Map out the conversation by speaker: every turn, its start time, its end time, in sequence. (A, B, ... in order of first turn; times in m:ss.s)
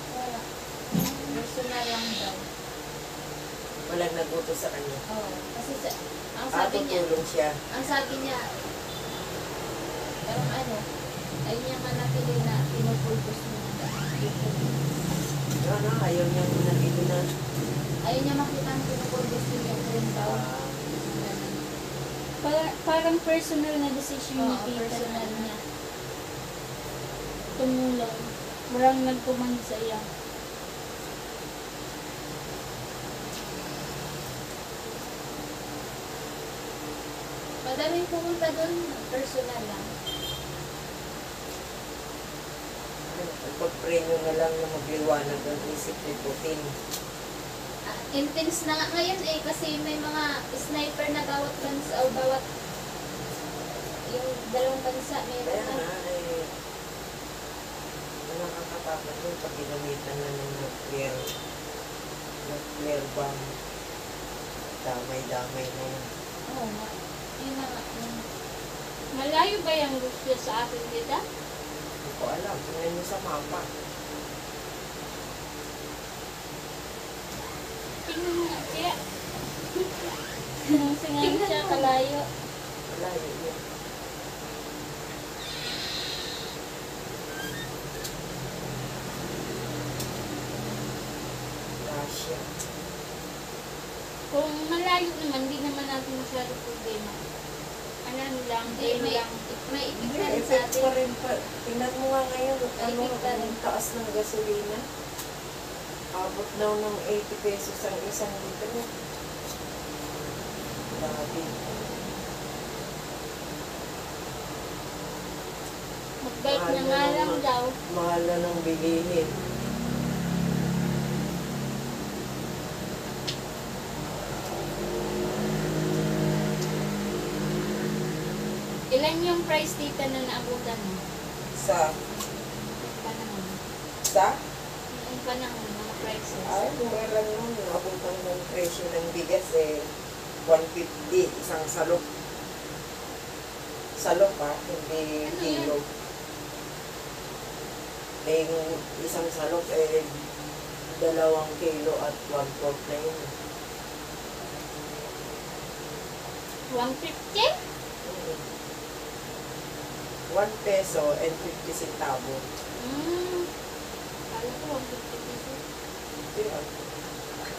0:00.1-0:02.4 A
0:03.9-0:05.0 B
0:05.1-0:07.0 A
0:06.6-0:07.5 B
0:07.7-0:08.4 A
0:10.3-0:10.9 A
0:11.4-0:14.7 A
0:15.6-0:17.4 B
0:18.0-0:21.6 A
0:20.2-0:20.8 B
0:22.4-0:25.6 C
0:24.4-0:25.5 A
0:27.6-0:30.1 C
0:37.6-0:39.9 A
0:43.1-0:46.7 B
0:47.9-0:52.4 A
0:54.1-0:55.8 A
0:55.4-0:56.5 B
0:58.3-1:01.2 B
1:02.4-1:03.5 B
1:04.8-1:06.1 B
1:06.5-1:08.2 A
1:09.1-1:11.2 C
1:12.0-1:13.7 B
1:18.1-1:19.0 C
1:20.6-1:22.3 C
1:21.2-1:21.9 A
1:22.9-1:23.6 B
1:31.8-1:32.4 B
1:34.3-1:37.2 C
1:38.0-1:39.4 C
1:38.7-1:40.9 A
1:40.0-1:44.8 B
1:42.8-1:43.6 A
1:46.2-1:48.9 B
1:50.9-1:51.5 B
1:56.2-1:57.7 C
1:56.5-1:59.3 B
2:08.9-2:11.0 C
2:11.6-2:11.9 B
2:12.8-2:13.6 A
2:14.0-2:14.4 B
2:14.9-2:16.7 C
2:16.5-2:19.9 B
2:20.5-2:22.0 B
2:24.0-2:25.8 B
2:28.2-2:30.2 B
2:30.9-2:33.3 B
2:36.7-2:37.5 C
2:38.0-2:38.4 B
2:40.3-2:42.4 B
2:42.8-2:43.5 C
2:44.3-2:45.6 C
2:46.3-2:46.6 B